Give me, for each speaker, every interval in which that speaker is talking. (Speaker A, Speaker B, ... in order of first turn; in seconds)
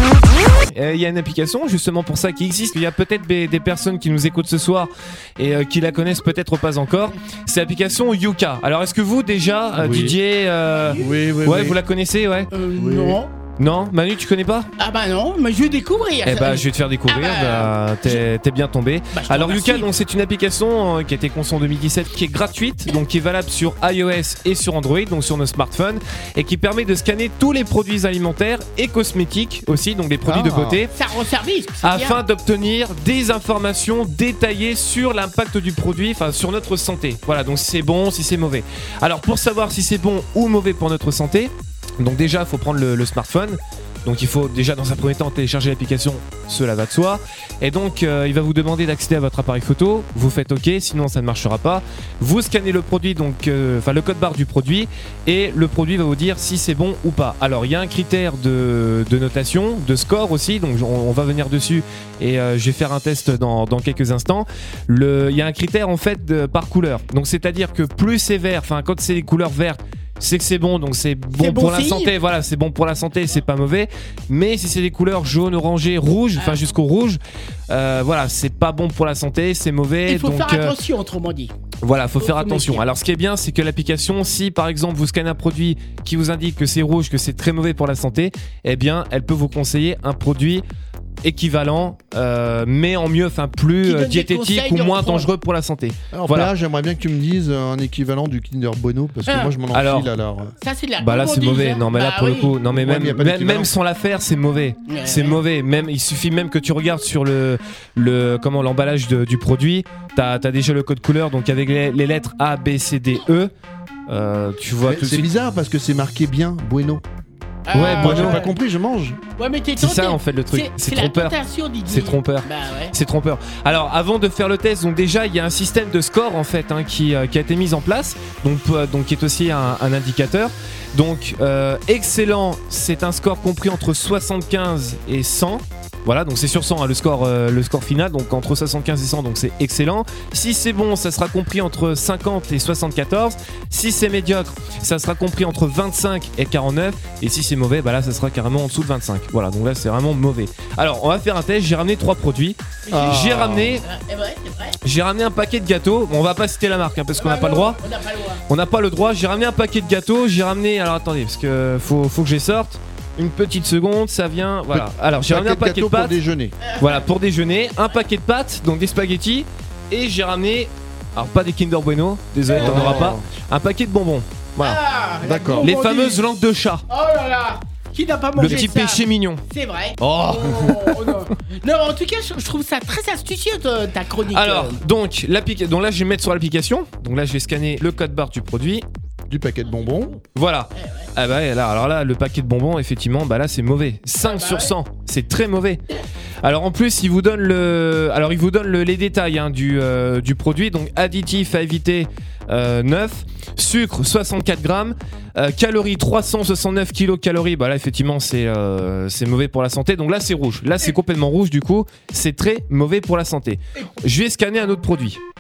Speaker A: 0.7-12.5, 13.6-14.7, 16.2-30.9, 31.8-80.8, 81.8-90.6, 91.2-96.5, 99.7-100.1, 101.0-113.5, 114.1-115.3, 117.7-118.4, 119.8-121.4, 121.9-153.8, 154.8-157.8, 158.5-166.2, 166.8-174.8, 175.6-176.8, 178.4-179.4, 180.0-180.9, 184.3-188.8, 190.3-195.8, 196.4-215.2
Speaker B: 9.8-10.2, 11.0-11.8, 12.8-13.2, 30.2-30.8, 96.1-100.5, 102.7-103.7, 114.8-117.0, 117.8-119.2, 152.9-153.8, 164.7-166.5, 172.6-173.2, 175.2-175.7, 189.3-190.2
Speaker C: 12.5-13.3, 14.8-18.2, 19.1-19.9, 31.0-32.2, 71.4-72.1, 80.1-81.5, 82.2-82.8, 93.8-95.3, 99.3-99.5, 100.6-102.5, 104.9-105.4, 117.7-118.5, 119.4-122.9, 152.9-154.8, 157.2-158.4, 166.6-167.1, 172.5-173.1, 174.6-176.2, 176.9-184.8, 190.8-191.1, 194.2-194.7